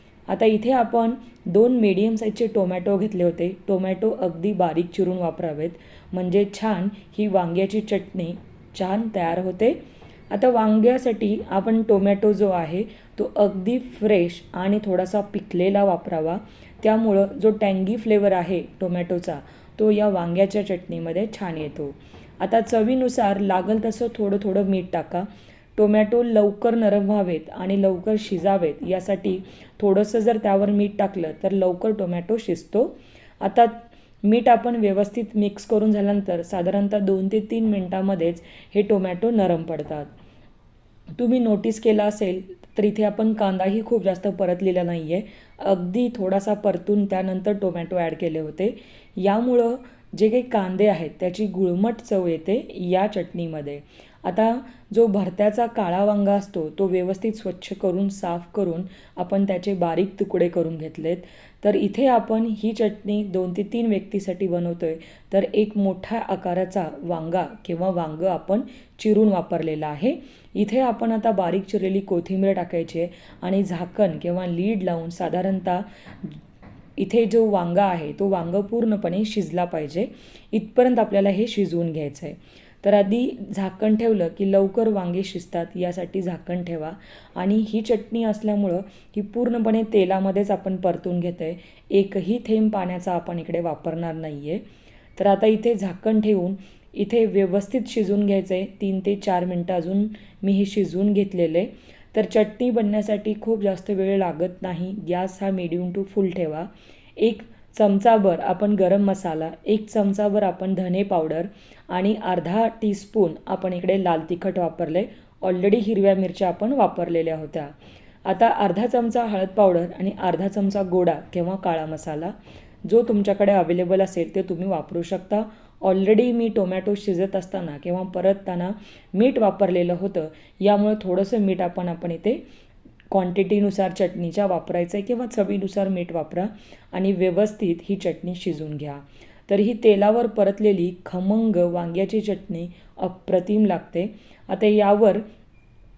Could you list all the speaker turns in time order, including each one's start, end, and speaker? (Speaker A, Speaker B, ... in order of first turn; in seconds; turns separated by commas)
Speaker A: 0.3-9.8, Speaker A: 10.3-40.1, Speaker A: 41.2-76.4, Speaker A: 77.0-94.6, Speaker A: 95.2-117.7, Speaker A: 118.2-132.4, Speaker A: 133.1-145.2